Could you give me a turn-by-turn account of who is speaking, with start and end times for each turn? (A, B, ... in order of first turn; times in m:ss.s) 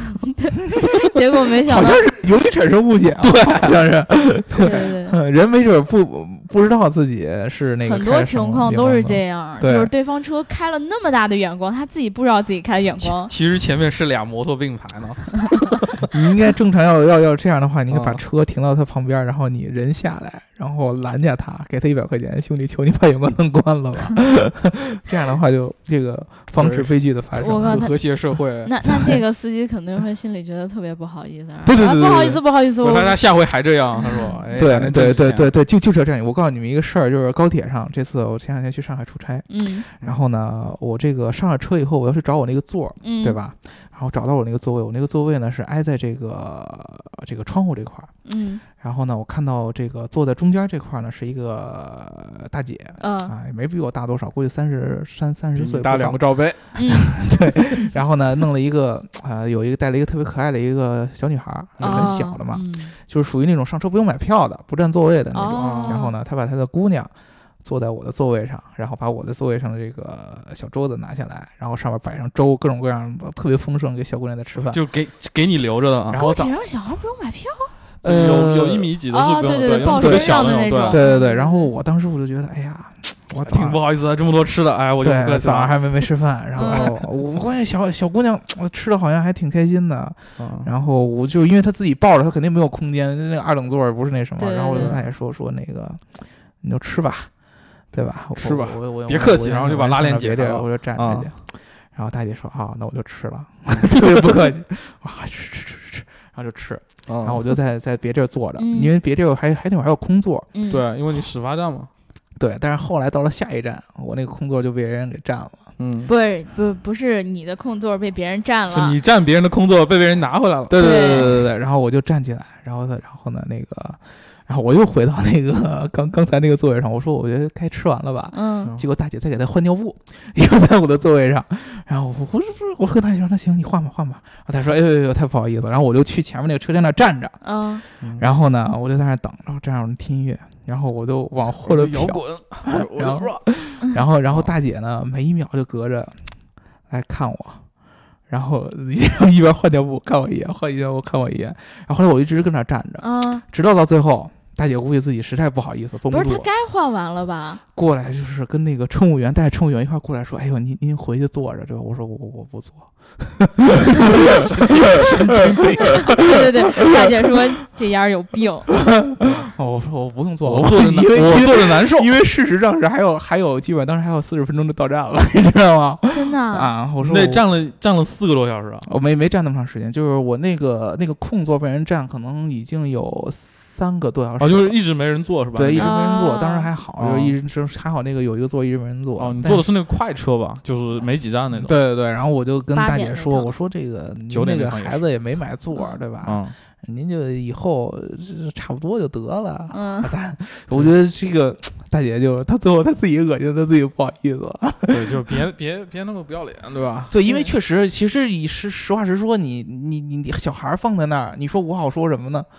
0:00.3-0:02.0 A
0:00.8-0:09.9 B
0:03.2-0:03.8 C
0:04.6-0:05.2 A
0:07.8-0:13.3 A
0:13.0-0:16.1 C
0:16.1-0:27.8 B
0:17.9-0:18.2 C
0:26.6-0:28.7 C
0:27.4-0:28.1 A
0:28.6-0:33.2 A
0:31.6-0:32.4 B
0:32.8-0:35.5 C
0:34.0-0:34.4 A
0:34.6-0:48.1 B
0:39.5-0:39.9 A
0:43.0-0:43.4 A
0:48.2-0:48.6 A
0:48.7-1:07.1 B
0:53.0-0:53.3 A
0:55.6-0:56.7 C
0:56.8-0:57.1 A
1:01.8-1:02.2 C
1:01.8-1:02.9 A
1:05.3-1:06.2 A
1:05.6-1:06.0 C
1:07.6-1:14.8 B
1:14.6-1:16.2 C
1:16.1-1:16.5 B
1:16.2-1:17.7 A
1:18.0-1:18.9 B
1:18.0-1:21.0 C
1:19.1-1:21.7 A
1:19.9-1:23.8 B
1:23.4-1:25.8 C
1:25.0-1:37.3 B
1:26.6-1:27.0 C
1:26.6-1:26.9 A
1:30.4-1:30.7 C
1:34.4-1:35.0 A
1:34.7-1:35.0 C
1:37.9-1:50.5 B
1:38.4-1:41.3 C
1:47.1-1:47.4 C
1:48.6-1:48.9 A
1:50.5-1:50.8 A
1:50.7-1:51.9 C
1:52.4-1:55.6 B
1:55.8-1:56.1 C
1:56.1-1:59.0 A
1:58.7-2:01.4 C
2:00.7-2:26.3 B
2:00.8-2:01.3 A
2:08.3-2:08.7 A
2:17.4-2:17.8 A
2:21.6-2:23.5 C
2:26.9-2:27.6 B
2:28.3-2:36.5 B
2:33.0-2:33.4 A
2:36.1-2:37.6 A
2:37.8-2:47.1 B
2:43.9-2:46.2 C
2:46.0-2:48.7 A
2:48.8-2:57.4 B
2:50.4-2:52.1 C
2:56.1-2:56.7 A
2:57.0-2:58.9 C
2:58.8-3:04.8 B
3:04.4-3:05.9 C
3:05.5-3:09.7 B
3:05.8-3:06.7 A
3:07.0-3:07.4 C
3:09.2-3:11.8 C
3:11.5-3:25.4 B
3:12.7-3:13.5 A
3:14.3-3:15.1 C
3:16.2-3:16.5 C
3:19.7-3:20.1 A
3:24.9-3:27.1 C
3:27.1-3:32.5 B
3:27.2-3:27.5 A